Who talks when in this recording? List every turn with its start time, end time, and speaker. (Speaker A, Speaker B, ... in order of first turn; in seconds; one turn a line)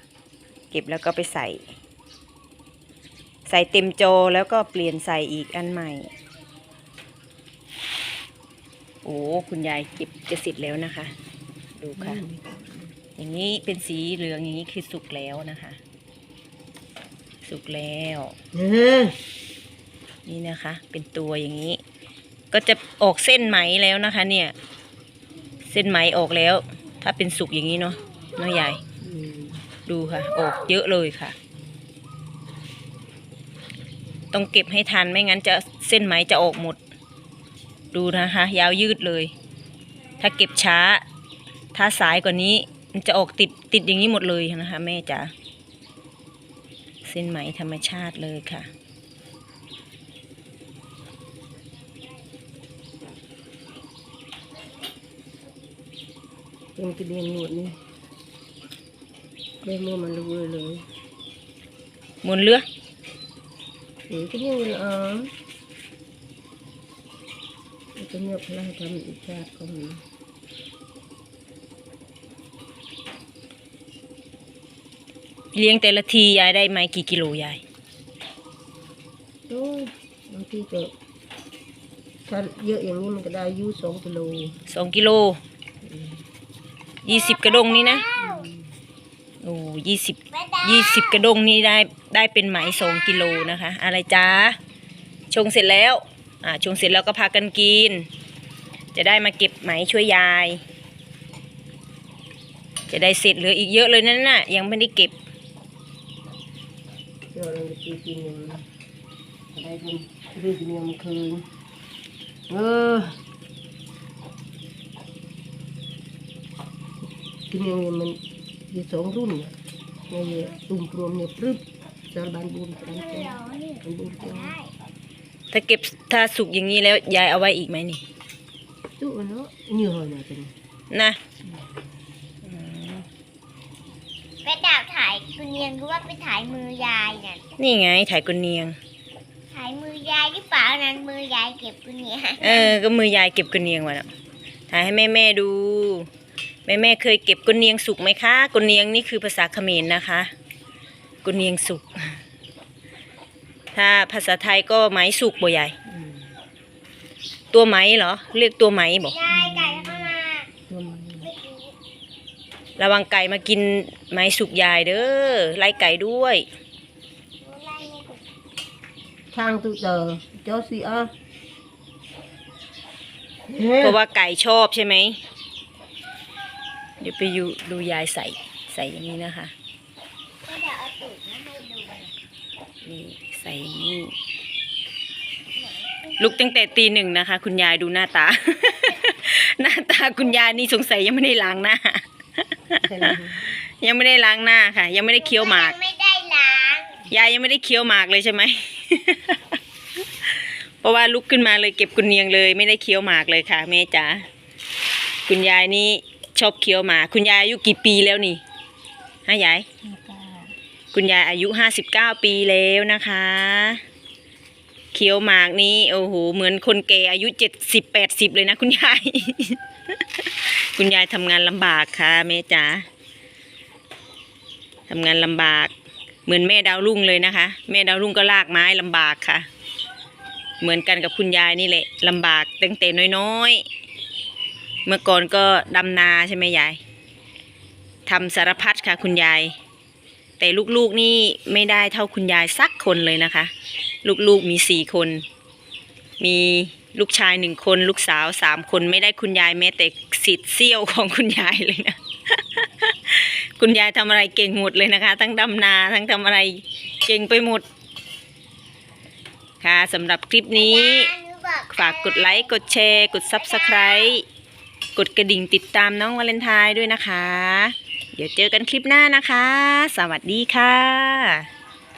Speaker A: 0.7-1.6
Speaker A: 3.5-6.1
Speaker A: 9.0-11.1
Speaker A: 11.8-12.2
Speaker B: 11.9-12.9
Speaker A: 13.2-15.8
Speaker A: 17.4-18.4
Speaker B: 18.5-19.2
Speaker A: 20.2-21.8
Speaker A: 22.5-24.5
Speaker A: 25.6-28.8
Speaker B: 29.0-29.6
Speaker A: 29.9-31.4
Speaker A: 34.3-36.8
Speaker A: 37.9-39.3
Speaker C: 40.1-40.5
Speaker A: 40.2-41.0
Speaker A: 41.7-45.3
Speaker A: 47.0-48.7
Speaker B: 56.7-57.8
Speaker B: 59.6-60.9
Speaker A: 62.2-62.6
Speaker B: 64.1-65.3
Speaker B: 68.0-70.0
Speaker A: 75.5-77.6
Speaker B: 79.5-80.9
Speaker B: 82.2-84.6
Speaker A: 84.7-85.4
Speaker B: 85.8-86.2
Speaker A: 87.0-88.0
Speaker C: 87.1-88.5
Speaker B: 88.2-88.5
Speaker A: 89.4-94.6
Speaker C: 90.3-91.3
Speaker C: 92.7-93.5
Speaker A: 95.3-98.1
Speaker A: 98.9-100.6
Speaker A: 102.9-105.1
Speaker B: 107.3-108.6
Speaker B: 109.5-111.4
Speaker B: 112.5-113.2
Speaker B: 117.5-119.5
Speaker B: 120.1-124.5
Speaker C: 122.9-124.7
Speaker A: 125.5-128.0
Speaker B: 129.0-130.5
Speaker A: 130.9-131.2
Speaker A: 132.4-133.1
Speaker C: 134.4-137.4
Speaker A: 137.6-138.8
Speaker C: 139.5-142.8
Speaker A: 142.4-144.1
Speaker A: 144.7-146.1
Speaker A: 146.7-150.3
Speaker A: 151.2-152.2
Speaker A: 153.7-155.8
Speaker A: 157.5-159.3
Speaker C: 159.1-160.5
Speaker B: 159.3-160.1
Speaker B: 160.7-161.3
Speaker C: 161.2-161.7
Speaker A: 162.8-166.4
Speaker C: 167.4-168.2
Speaker B: 169.3-171.1
Speaker B: 173.5-174.0
Speaker A: 173.8-175.2
Speaker A: 177.0-179.5
Speaker C: 180.4-182.1
Speaker A: 182.8-184.1
Speaker A: 186.2-195.7
Speaker B: 192.8-193.5
Speaker C: 195.2-197.0
Speaker A: 197.1-199.5
Speaker A: 200.2-204.2
Speaker A: 205.2-208.4
Speaker A: 209.2-209.7
Speaker B: 209.8-210.5
Speaker A: 210.9-213.8
Speaker A: 214.9-222.8
Speaker A: 224.9-225.7
Speaker A: 226.2-229.4
Speaker A: 230.6-233.6
Speaker A: 234.8-236.8
Speaker A: 238.1-239.6
Speaker A: 240.4-243.5
Speaker A: 244.0-245.2
Speaker A: 246.2-257.6
Speaker A: 259.6-261.1
Speaker C: 260.5-262.5
Speaker A: 261.7-264.2
Speaker C: 263.2-264.2
Speaker A: 264.9-271.5